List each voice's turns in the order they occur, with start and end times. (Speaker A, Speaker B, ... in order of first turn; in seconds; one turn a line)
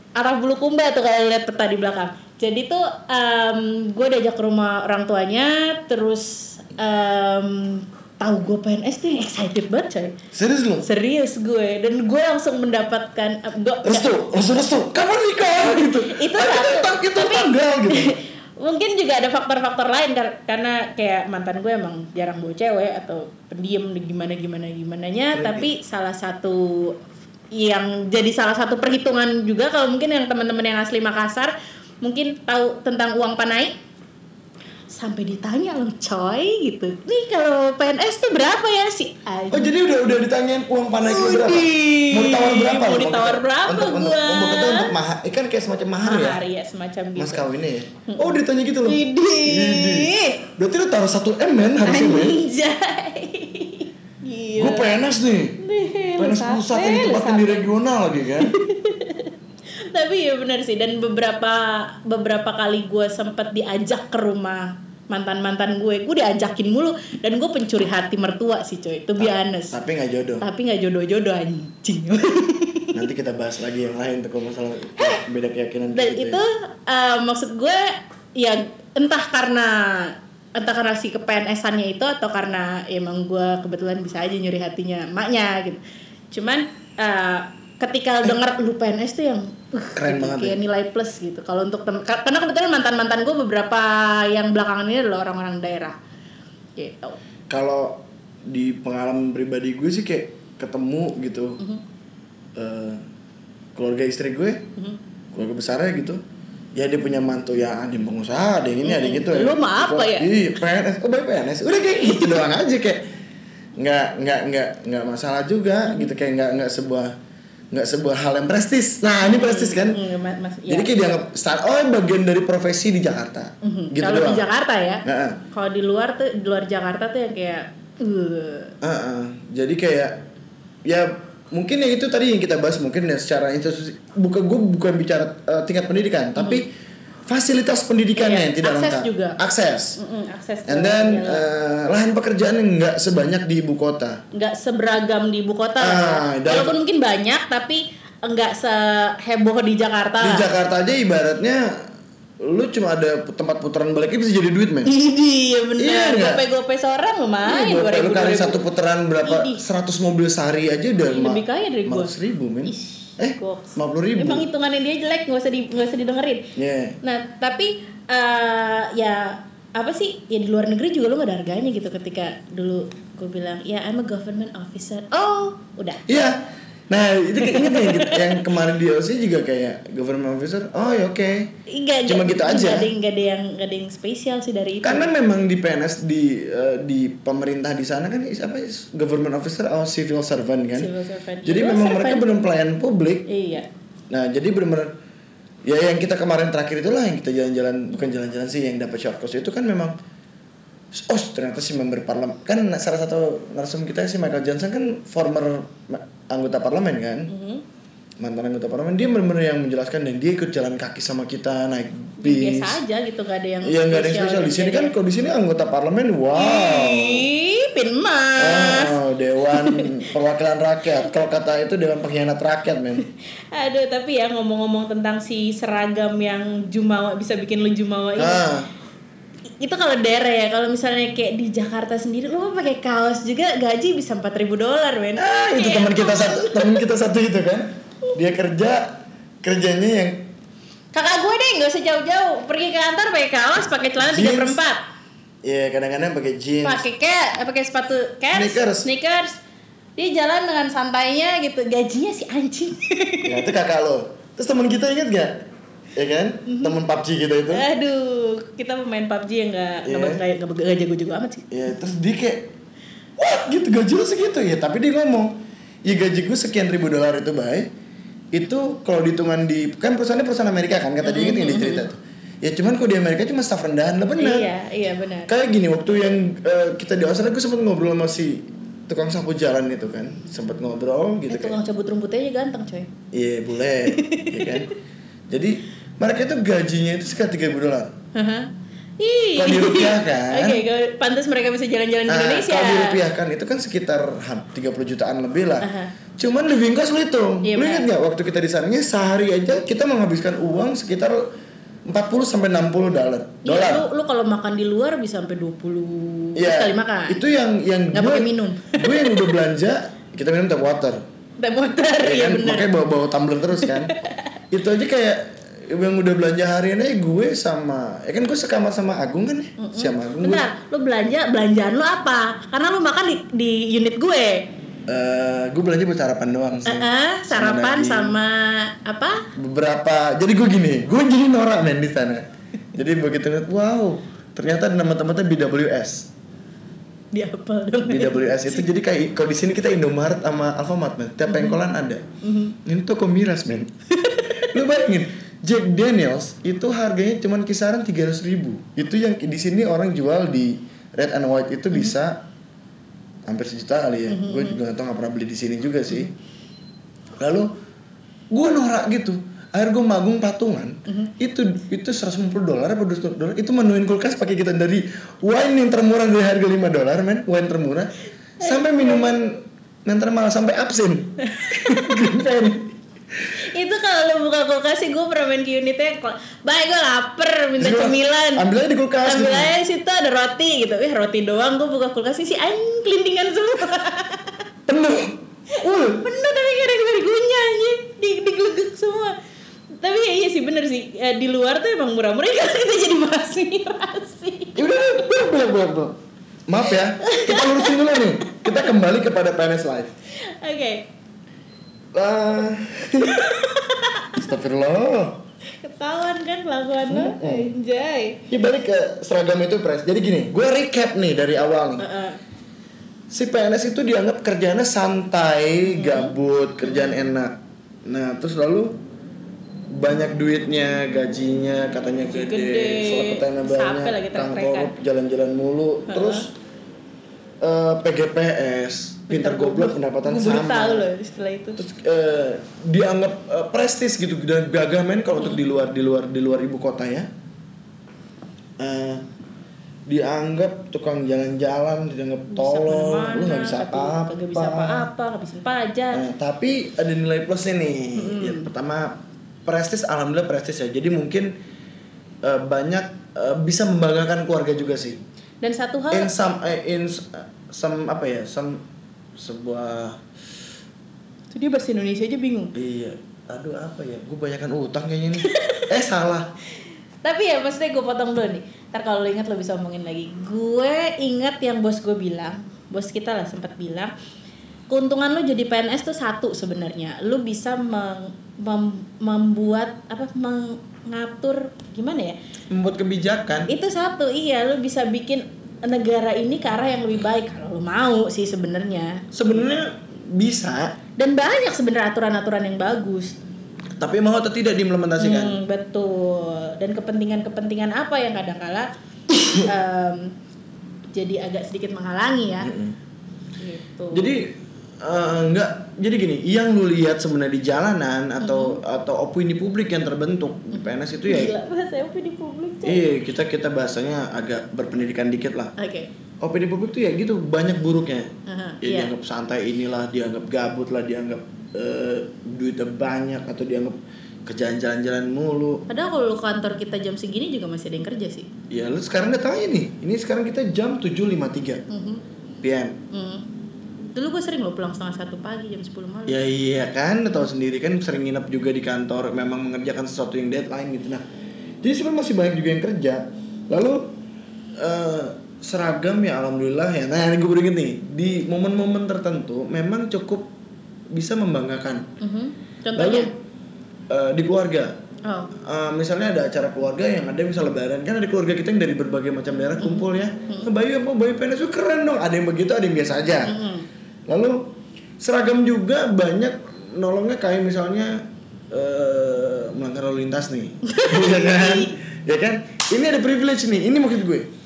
Speaker A: 0.1-10.2
Speaker B: 10.3-10.9
Speaker A: 10.8-14.1
Speaker B: 13.8-18.1
Speaker A: 15.8-26.9
Speaker B: 25.3-25.7
Speaker A: 27.5-31.5
Speaker A: 32.0-33.7
Speaker A: 34.9-39.7
Speaker B: 39.5-46.4
Speaker A: 41.0-44.9
Speaker A: 46.0-47.5
Speaker B: 47.1-52.4
Speaker A: 48.0-50.5
Speaker A: 51.8-55.0
Speaker B: 54.6-55.6
Speaker A: 55.6-57.7
Speaker B: 56.2-58.5
Speaker A: 58.4-59.3
Speaker A: 59.9-69.8
Speaker B: 69.2-70.4
Speaker A: 70.4-73.0
Speaker B: 72.9-76.4
Speaker A: 75.9-96.0
Speaker B: 90.0-90.6
Speaker A: 96.8-97.2
Speaker B: 97.5-101.6
Speaker B: 102.5-103.0
Speaker B: 103.7-104.6
Speaker B: 105.3-106.2
Speaker B: 106.7-113.0
Speaker A: 108.8-110.3
Speaker B: 113.8-117.1
Speaker B: 117.7-120.0
Speaker A: 119.2-120.9
Speaker B: 120.7-124.5
Speaker A: 123.6-128.7
Speaker B: 125.0-125.4
Speaker B: 128.8-130.2
Speaker B: 130.8-136.7
Speaker A: 136.3-136.6
Speaker B: 137.3-140.0
Speaker A: 138.2-139.4
Speaker A: 140.0-141.4
Speaker B: 140.7-144.2
Speaker A: 144.3-150.5
Speaker B: 145.8-146.7
Speaker B: 150.2-151.9
Speaker B: 152.4-154.9
Speaker A: 154.8-158.6
Speaker B: 155.8-156.4
Speaker B: 157.4-164.4
Speaker A: 159.2-159.6
Speaker A: 161.0-162.1
Speaker A: 162.7-176.0
Speaker B: 166.5-167.0
Speaker B: 176.1-181.5
Speaker A: 177.4-178.4
Speaker A: 181.7-185.1
Speaker B: 182.1-182.9
Speaker B: 184.8-190.9
Speaker A: 190.7-192.3
Speaker B: 191.4-193.3
Speaker A: 193.3-193.7
Speaker B: 194.1-194.9
Speaker B: 195.6-199.9
Speaker B: 200.9-207.3
Speaker A: 207.3-207.6
Speaker B: 208.2-212.8
Speaker A: 212.2-214.9
Speaker B: 213.6-217.3
Speaker A: 216.3-219.0
Speaker B: 218.4-223.0
Speaker A: 219.5-220.0
Speaker A: 223.5-228.4
Speaker B: 228.2-228.7
Speaker A: 229.6-236.8
Speaker B: 235.2-240.3
Speaker A: 240.9-244.8
Speaker B: 244.0-244.6
Speaker B: 245.4-246.8
Speaker A: 246.6-249.4
Speaker B: 248.3-248.9
Speaker A: 250.0-253.5
Speaker B: 253.2-255.4
Speaker B: 255.9-257.7
Speaker A: 256.4-256.8
Speaker A: 257.5-261.5
Speaker B: 259.9-260.2
Speaker B: 261.5-262.5
Speaker B: 263.2-267.7
Speaker B: 268.3-274.5
Speaker A: 271.0-271.8
Speaker A: 274.2-275.3
Speaker B: 275.3-281.6
Speaker A: 281.3-282.9
Speaker B: 283.1-284.7
Speaker A: 283.9-284.7
Speaker B: 285.3-287.9
Speaker A: 288.1-293.0
Speaker B: 289.4-290.6
Speaker B: 292.1-301.3
Speaker A: 295.6-295.9
Speaker A: 297.4-297.9
Speaker B: 301.9-303.9
Speaker A: 303.4-307.2
Speaker B: 306.4-311.0
Speaker A: 307.9-309.3
Speaker A: 311.4-312.7
Speaker B: 312.0-313.9
Speaker A: 313.6-314.3
Speaker B: 314.5-320.5
Speaker A: 319.6-324.5
Speaker B: 324.9-328.2
Speaker A: 326.6-329.3
Speaker B: 329.3-332.2
Speaker B: 332.7-336.1
Speaker A: 337.1-338.7
Speaker B: 337.8-342.0
Speaker A: 341.3-341.6
Speaker A: 342.2-342.6
Speaker B: 342.6-343.7
Speaker A: 343.9-344.5
Speaker B: 344.3-352.2
Speaker B: 353.2-356.1
Speaker A: 354.1-354.6
Speaker B: 357.2-357.5
Speaker B: 358.3-372.7
Speaker A: 360.9-361.1
Speaker A: 368.4-369.1
Speaker A: 371.2-372.1
Speaker A: 373.3-378.4
Speaker B: 377.6-379.5
Speaker A: 379.0-384.4
Speaker B: 384.7-386.1
Speaker A: 385.6-389.1
Speaker A: 389.8-394.8
Speaker B: 394.6-399.9
Speaker A: 396.7-398.7
Speaker A: 400.2-400.9
Speaker B: 401.9-403.4
Speaker A: 403.0-404.1
Speaker B: 404.1-405.2
Speaker A: 405.6-408.2
Speaker B: 406.9-407.5
Speaker B: 408.3-411.9
Speaker A: 411.8-412.2
Speaker B: 413.1-418.8
Speaker A: 415.7-416.1
Speaker A: 416.6-416.9
Speaker B: 419.7-426.3
Speaker A: 422.1-424.7
Speaker A: 425.9-426.3
Speaker B: 427.4-430.9
Speaker A: 429.1-431.6
Speaker B: 431.6-437.1
Speaker B: 438.6-439.0
Speaker B: 439.9-444.9
Speaker A: 442.3-446.0
Speaker B: 445.9-451.3
Speaker A: 447.9-448.5
Speaker B: 452.2-455.0
Speaker A: 455.4-456.1
Speaker B: 455.9-458.6
Speaker B: 459.1-460.0
Speaker A: 461.3-462.5
Speaker B: 462.5-466.3
Speaker A: 465.2-465.7
Speaker A: 467.0-473.9
Speaker A: 474.7-482.1
Speaker B: 482.5-483.5
Speaker A: 483.5-489.1
Speaker B: 489.1-490.7
Speaker A: 491.0-493.2
Speaker B: 493.8-495.4
Speaker A: 495.0-498.7
Speaker A: 499.2-500.1
Speaker A: 500.9-502.5
Speaker B: 502.4-502.8
Speaker A: 503.4-504.1
Speaker B: 503.9-511.3
Speaker A: 508.2-508.6
Speaker A: 510.5-512.9
Speaker B: 512.6-515.5
Speaker A: 515.6-515.9
Speaker B: 516.2-518.1
Speaker A: 518.3-518.9
Speaker B: 518.6-525.6
Speaker A: 525.7-528.3
Speaker B: 528.5-531.6
Speaker A: 531.7-532.0
Speaker B: 532.4-532.8
Speaker A: 532.9-533.3
Speaker A: 533.9-536.2
Speaker B: 536.1-541.0
Speaker B: 541.6-544.0
Speaker B: 544.6-550.2
Speaker B: 550.9-551.9
Speaker A: 552.0-553.1
Speaker B: 552.7-553.1
Speaker B: 553.9-554.7
Speaker A: 555.0-555.3
Speaker B: 555.4-563.4
Speaker A: 559.6-560.5
Speaker A: 563.2-563.6
Speaker B: 564.1-574.3
Speaker A: 570.6-571.7